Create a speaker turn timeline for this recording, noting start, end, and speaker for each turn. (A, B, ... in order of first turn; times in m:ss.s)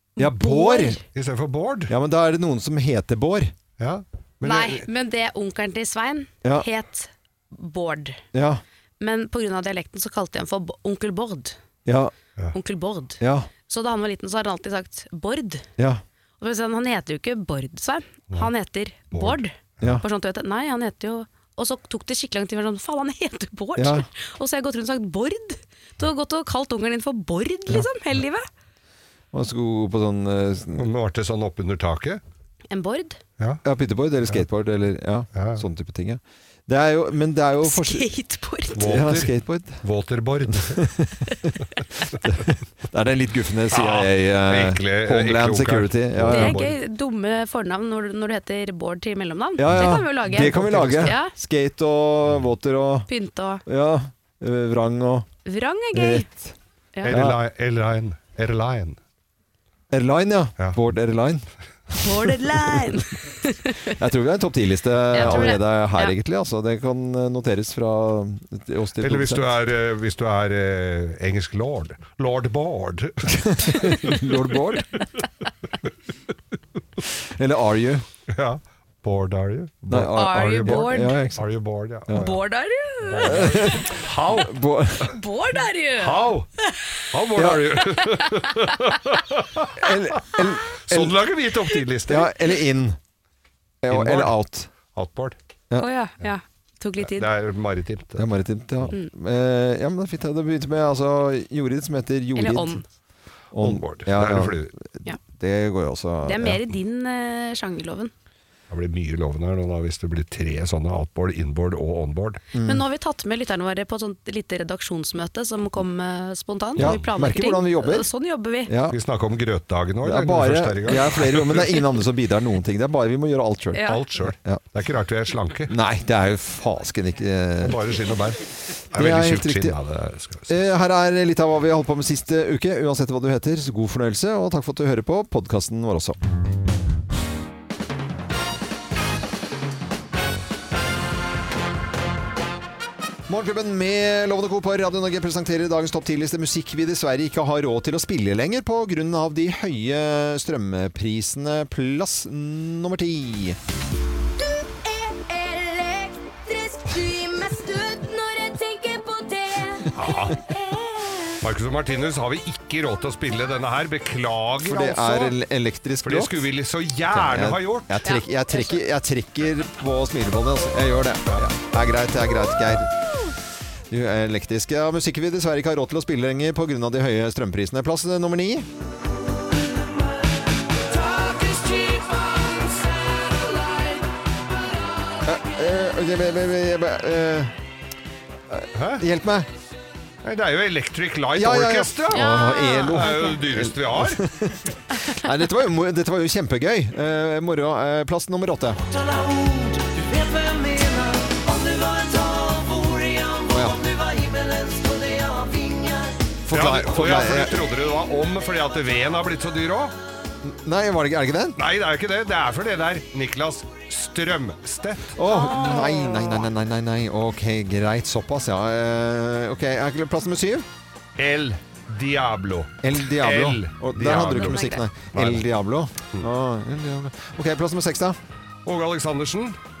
0:00.2-0:01.0 A
0:00.2-0:01.0 B
0:01.1-0:01.9 C
0:01.9-0:03.5 B
0:03.8-0:04.8 C
0:04.4-0:08.2 A
0:08.3-0:08.6 B
0:09.0-0:11.6 A
0:11.8-0:12.1 B
0:12.5-0:15.7 A
0:13.2-0:13.5 B
0:16.4-0:28.5 A
0:19.1-0:19.4 C
0:23.8-0:24.0 B
0:29.3-0:30.8 B
0:30.7-0:32.2 C
0:32.7-0:33.2 A
0:33.6-0:38.1 B
0:35.3-0:35.6 C
0:37.6-0:38.8 A
0:38.7-0:40.8 C
0:38.8-0:39.8 B
0:40.5-0:41.5 B
0:42.2-0:46.7 B
0:43.7-0:46.7 C
0:46.3-0:51.3 A
0:49.6-0:53.1 B
0:49.7-0:51.1 C
0:53.1-0:53.6 A
0:53.6-0:55.3 B
0:55.4-0:56.3 A
0:55.9-0:56.5 B
0:57.0-0:59.0 C
0:57.1-0:57.4 B
0:59.9-1:01.4 B
1:02.0-1:03.9 A
1:02.1-1:02.5 B
1:03.9-1:09.4 B
1:05.1-1:06.1 A
1:05.2-1:05.5 C
1:09.0-1:14.2 C
1:13.3-1:14.9 B
1:17.4-1:18.0 B
1:18.3-1:22.4 C
1:19.9-1:21.4 B
1:20.1-1:21.2 A
1:22.1-1:23.8 A
1:23.0-1:24.5 C
1:23.2-1:25.1 B
1:25.0-1:26.8 A
1:26.0-1:26.5 C
1:27.1-1:30.0 C
1:27.3-1:27.9 B
1:28.0-1:29.0 A
1:29.8-1:31.2 B
1:30.9-1:32.3 C
1:32.1-1:33.0 B
1:33.8-1:34.7 B
1:33.9-1:34.4 C
1:34.9-1:35.4 C
1:35.8-1:37.3 A
1:37.0-1:38.3 C
1:38.2-1:42.8 B
1:42.3-1:42.8 A
1:43.5-1:46.6 B
1:43.6-1:44.7 C
1:46.2-1:48.1 A
1:48.7-1:52.4 C
1:52.5-1:52.8 B
1:52.6-1:58.7 A
1:56.8-1:58.1 B
1:58.6-1:59.0 B
1:58.9-2:01.9 C
2:00.0-2:04.6 B
2:03.7-2:04.0 A
2:03.8-2:05.7 C
2:05.7-2:07.9 B
2:07.6-2:08.4 C
2:08.9-2:10.5 C
2:08.9-2:09.8 B
2:10.5-2:16.2 B
2:23.3-2:33.6 B
2:34.4-2:39.9 D
2:39.9-2:40.4 C
2:40.5-2:41.2 D
2:41.4-2:45.4 C
2:44.6-2:46.4 B
2:46.0-2:48.0 C
2:47.1-2:52.9 B
2:48.0-2:48.8 A
2:53.9-2:58.7 B
3:00.9-3:04.1 D
3:05.2-3:07.5 B
3:08.5-3:09.5 B
3:08.7-3:09.0 C
3:10.2-3:14.2 C
3:11.3-3:18.8 B
3:12.1-3:13.4 A
3:18.9-3:26.2 D
3:23.5-3:23.8 B
3:26.4-3:27.6 B
3:26.5-3:29.9 C
3:30.4-3:31.6 B
3:31.6-3:35.1 C
3:35.2-3:40.6 B
3:35.2-3:36.5 A
3:41.2-3:45.4 C
3:42.8-3:48.2 B
3:44.3-3:44.8 A
3:48.6-3:49.6 C